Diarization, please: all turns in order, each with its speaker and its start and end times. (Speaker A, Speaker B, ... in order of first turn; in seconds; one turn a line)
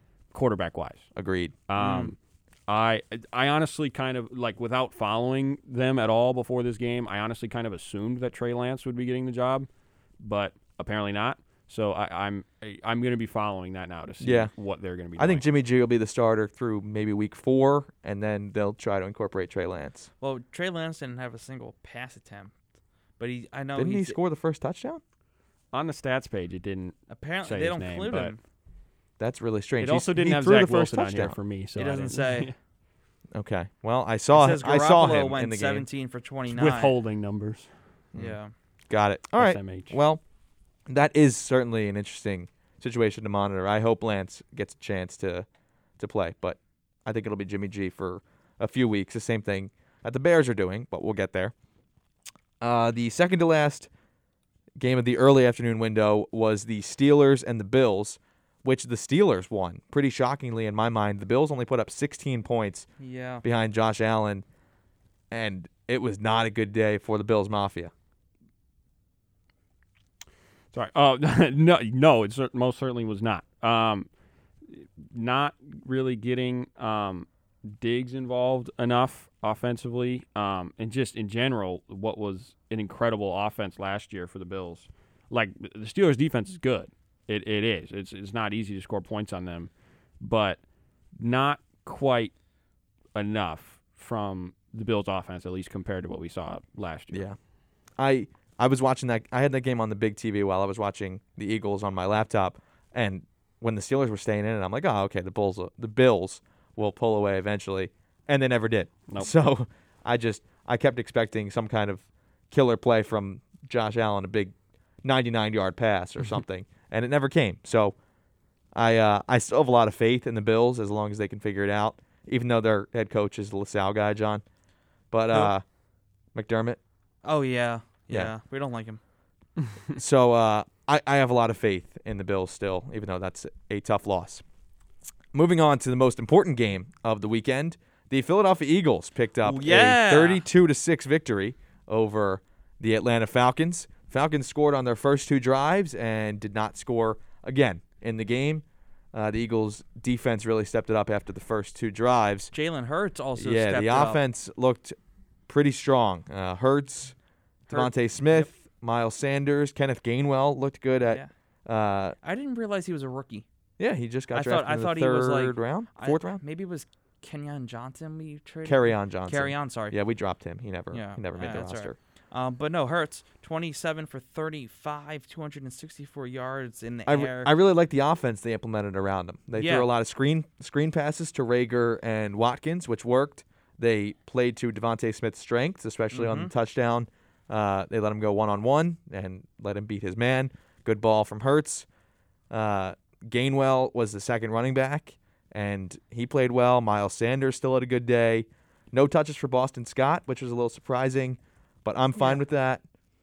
Speaker A: 0.3-1.1
Speaker B: 1.1-1.5
Speaker A: 1.7-9.7
Speaker C: 1.8-2.1
Speaker A: 10.2-15.4
Speaker B: 14.2-14.5
Speaker B: 15.2-20.1
Speaker C: 20.2-22.5
Speaker C: 23.2-24.2
Speaker B: 23.7-25.0
Speaker A: 25.7-28.3
Speaker C: 27.1-28.4
Speaker B: 29.2-31.4
Speaker A: 29.8-32.5
Speaker C: 31.8-32.5
Speaker B: 33.3-35.9
Speaker C: 34.3-36.9
Speaker A: 36.5-37.7
Speaker C: 38.1-38.5
Speaker B: 38.9-40.2
Speaker A: 39.4-40.0
Speaker B: 40.9-45.5
Speaker B: 46.0-51.5
Speaker B: 52.6-53.9
Speaker B: 54.8-62.9
Speaker C: 63.0-63.4
Speaker B: 63.4-64.4
Speaker B: 65.3-67.9
Speaker A: 70.7-74.1
Speaker A: 74.7-90.6
Speaker A: 91.2-92.3
Speaker A: 93.1-97.2
Speaker B: 97.1-97.4
Speaker B: 98.0-118.0
Speaker B: 118.7-124.4
Speaker B: 125.1-125.6
Speaker B: 126.3-126.8
Speaker C: 127.2-129.0
Speaker B: 129.9-134.4
Speaker B: 135.3-152.5
Speaker C: 139.4-140.4
Speaker C: 152.5-154.2
Speaker B: 153.4-154.9
Speaker B: 155.5-157.1
Speaker B: 157.7-162.2
Speaker C: 157.7-158.5
Speaker C: 162.2-163.4
Speaker B: 163.8-166.4
Speaker C: 164.3-169.9
Speaker B: 168.6-171.9
Speaker C: 170.9-177.5
Speaker B: 177.1-191.8
Speaker C: 179.6-179.9
Speaker C: 186.1-186.5
Speaker B: 192.5-202.8
Speaker C: 202.2-202.4